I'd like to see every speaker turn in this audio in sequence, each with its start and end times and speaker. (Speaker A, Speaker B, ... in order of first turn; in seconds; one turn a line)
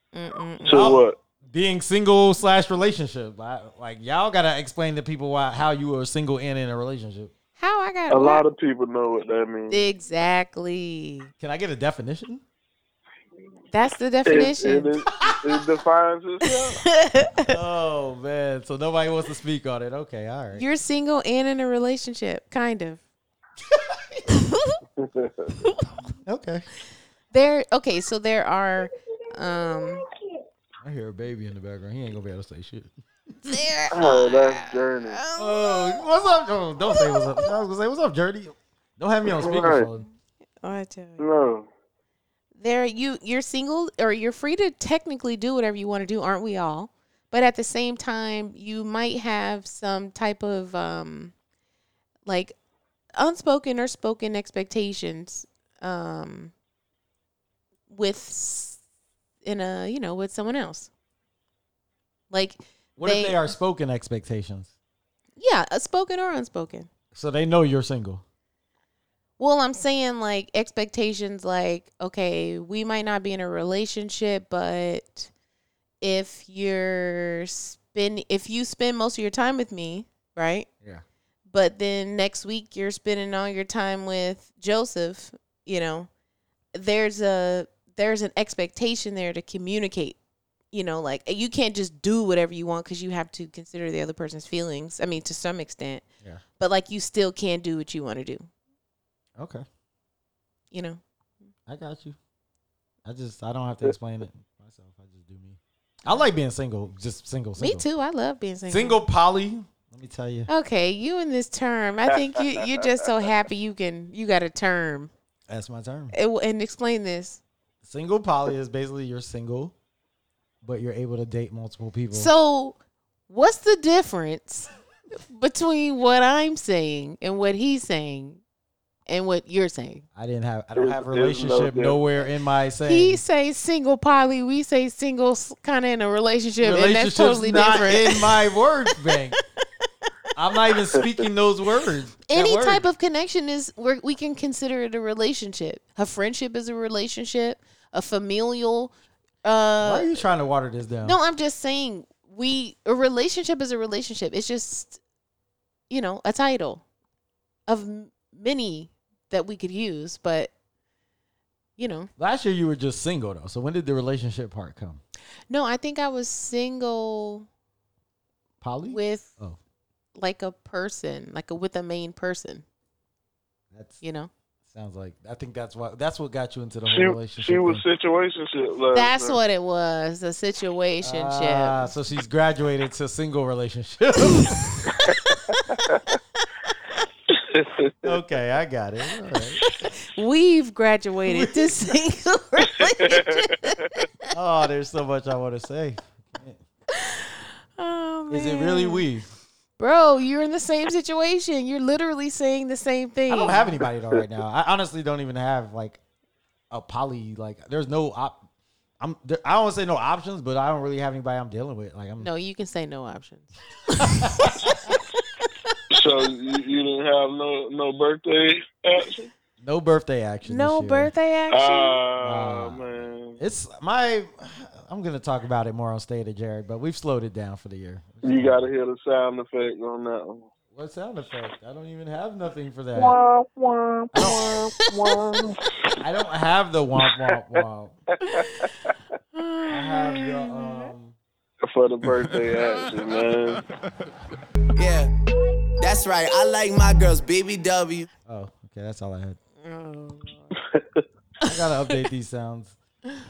Speaker A: 0.1-1.0
Speaker B: 0.7-1.2
Speaker C: 0.7-7.3
Speaker A: 7.6-8.4
Speaker B: 8.1-9.8
Speaker A: 9.7-11.3
Speaker C: 11.4-12.4
Speaker A: 13.7-14.9
Speaker B: 14.2-16.8
Speaker C: 15.1-15.4
Speaker A: 16.6-17.6
Speaker C: 17.4-20.6
Speaker A: 20.5-23.0
Speaker C: 23.7-24.2
Speaker A: 24.3-24.8
Speaker B: 25.0-25.5
Speaker C: 26.3-26.7
Speaker A: 27.3-30.1
Speaker C: 30.8-33.4
Speaker A: 33.5-36.1
Speaker B: 33.9-35.2
Speaker C: 35.4-40.1
Speaker A: 36.9-37.5
Speaker B: 39.3-39.9
Speaker A: 40.6-41.2
Speaker B: 41.2-41.7
Speaker A: 42.6-51.3
Speaker A: 52.3-52.6
Speaker A: 53.2-56.5
Speaker A: 57.9-58.8
Speaker A: 59.4-60.9
Speaker A: 62.3-63.4
Speaker C: 63.0-64.7
Speaker A: 65.4-66.9
Speaker C: 67.1-68.2
Speaker A: 69.4-75.3
Speaker A: 76.0-80.7
Speaker A: 81.5-86.1
Speaker A: 86.7-90.2
Speaker A: 90.7-96.0
Speaker A: 96.6-98.5
Speaker C: 99.4-99.7
Speaker A: 100.7-101.0
Speaker C: 101.7-102.2
Speaker C: 103.0-107.8
Speaker A: 107.6-109.0
Speaker C: 108.7-110.5
Speaker A: 110.5-115.1
Speaker B: 112.4-112.7
Speaker C: 115.5-116.2
Speaker A: 116.1-117.4
Speaker C: 117.8-119.7
Speaker C: 120.6-122.3
Speaker A: 122.1-122.8
Speaker A: 123.3-128.4
Speaker A: 129.1-130.1
Speaker C: 130.2-133.2
Speaker B: 130.8-132.0
Speaker A: 132.8-138.4
Speaker C: 136.6-139.4
Speaker A: 139.0-139.9
Speaker C: 140.3-142.8
Speaker A: 142.3-148.9
Speaker A: 149.4-150.2
Speaker C: 149.8-151.2
Speaker A: 151.0-155.0
Speaker A: 155.9-156.8
Speaker A: 157.7-160.5
Speaker A: 161.8-162.1
Speaker C: 162.2-165.0
Speaker A: 165.5-167.5
Speaker C: 168.6-169.6
Speaker A: 168.9-169.3
Speaker A: 170.2-172.7
Speaker C: 173.7-174.0
Speaker A: 174.0-174.3
Speaker C: 174.7-177.8
Speaker B: 176.9-179.4
Speaker A: 178.9-181.9
Speaker C: 181.0-184.6
Speaker A: 184.3-186.0
Speaker B: 187.3-188.2
Speaker C: 188.0-189.6
Speaker A: 189.8-194.0
Speaker C: 191.3-191.7
Speaker B: 193.0-193.9
Speaker C: 194.3-196.6
Speaker A: 197.0-199.1
Speaker C: 198.3-199.3
Speaker A: 199.8-203.7
Speaker C: 203.3-206.0
Speaker C: 206.7-208.5
Speaker C: 209.0-212.3
Speaker A: 212.2-214.6
Speaker C: 214.0-214.5
Speaker B: 215.9-219.3
Speaker C: 219.6-221.1
Speaker A: 220.4-222.0
Speaker B: 221.5-223.4
Speaker C: 222.2-228.7
Speaker B: 228.2-230.5
Speaker C: 230.7-233.2
Speaker B: 233.0-235.6
Speaker C: 234.1-234.6
Speaker A: 234.2-235.2
Speaker C: 236.0-238.0
Speaker B: 237.0-237.6
Speaker B: 238.2-238.9
Speaker A: 238.3-238.7
Speaker A: 239.3-240.9
Speaker C: 239.7-241.2
Speaker B: 241.6-243.6
Speaker D: 244.8-245.1
Speaker D: 245.8-248.1
Speaker C: 248.3-249.4
Speaker A: 249.6-250.6
Speaker B: 250.6-251.0
Speaker C: 251.5-252.8
Speaker A: 251.5-252.0